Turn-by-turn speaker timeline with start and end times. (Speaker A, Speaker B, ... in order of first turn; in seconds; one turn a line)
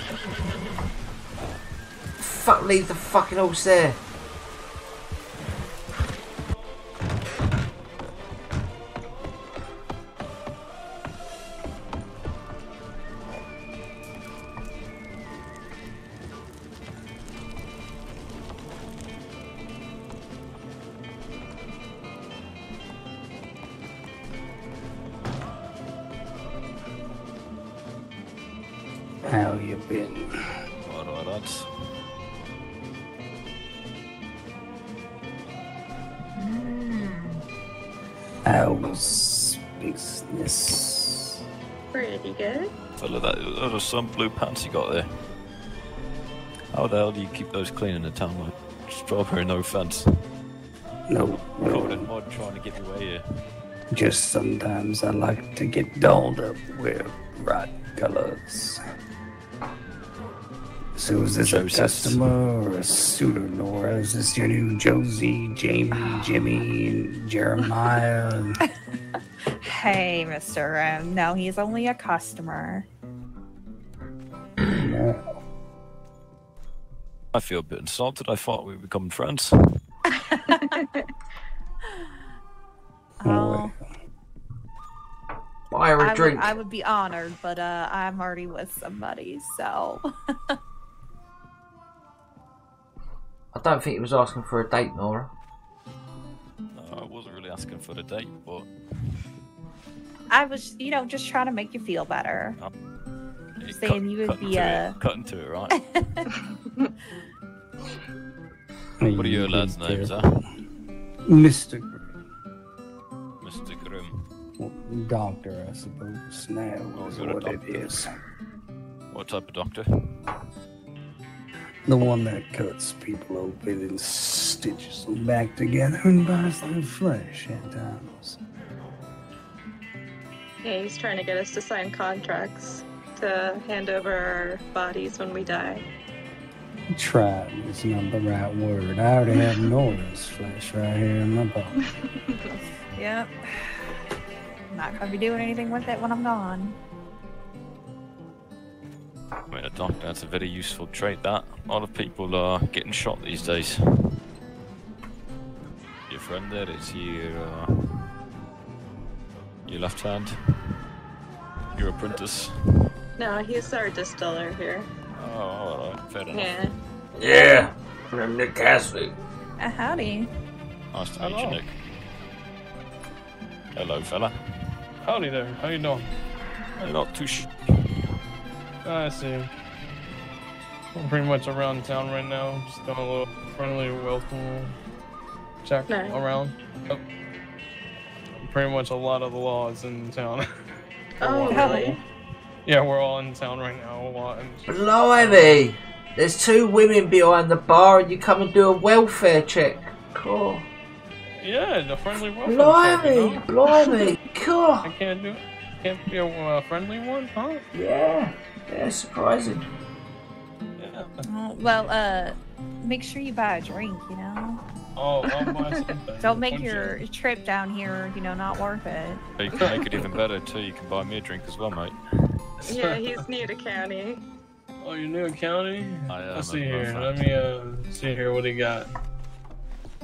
Speaker A: 2.2-4.0
Speaker B: 29.2-30.3
Speaker C: 30.8-31.7
Speaker A: 36.5-37.1
Speaker B: 38.4-41.4
Speaker D: 41.9-42.7
Speaker C: 43.0-45.1
Speaker C: 46.7-50.1
Speaker B: 51.1-52.1
Speaker C: 51.6-53.2
Speaker B: 53.9-58.8
Speaker B: 61.0-68.6
Speaker C: 61.4-62.2
Speaker E: 65.9-66.3
Speaker E: 69.6-72.9
Speaker B: 74.7-75.2
Speaker C: 77.3-79.8
Speaker E: 80.1-81.0
Speaker E: 83.2-83.7
Speaker B: 83.2-83.8
Speaker A: 85.7-86.6
Speaker E: 86.0-90.1
Speaker A: 93.5-95.3
Speaker C: 96.7-98.7
Speaker E: 100.3-102.6
Speaker C: 103.6-105.8
Speaker E: 103.7-105.0
Speaker E: 105.7-106.3
Speaker B: 109.0-110.2
Speaker C: 109.1-110.4
Speaker B: 111.3-112.2
Speaker C: 113.4-114.2
Speaker B: 114.6-118.1
Speaker C: 116.9-117.9
Speaker C: 119.1-119.9
Speaker B: 121.9-128.4
Speaker D: 130.6-135.8
Speaker B: 136.9-141.7
Speaker E: 142.9-143.8
Speaker E: 144.7-146.8
Speaker C: 149.5-154.1
Speaker C: 156.1-158.0
Speaker C: 159.7-160.5
Speaker C: 161.8-162.6
Speaker D: 163.2-164.9
Speaker C: 165.2-166.6
Speaker D: 166.3-166.7
Speaker A: 167.2-169.1
Speaker E: 169.6-170.3
Speaker C: 170.9-171.8
Speaker F: 171.2-171.6
Speaker C: 173.8-174.4
Speaker F: 175.0-176.1
Speaker C: 176.8-177.5
Speaker F: 178.8-179.5
Speaker F: 180.9-184.8
Speaker F: 185.6-187.0
Speaker D: 185.9-186.2
Speaker F: 188.4-190.5
Speaker D: 191.2-191.9
Speaker F: 191.2-192.0
Speaker F: 192.7-194.7
Speaker A: 194.7-200.7
Speaker F: 195.2-195.6
Speaker F: 201.4-203.5
Speaker A: 202.4-204.9
Speaker F: 204.8-207.6
Speaker A: 207.7-209.7
Speaker F: 210.8-211.2
Speaker E: 211.2-214.6
Speaker F: 215.0-217.0
Speaker E: 216.2-219.2
Speaker C: 219.4-222.0
Speaker F: 222.6-223.2
Speaker D: 222.7-224.2
Speaker F: 224.8-228.9
Speaker C: 226.1-227.3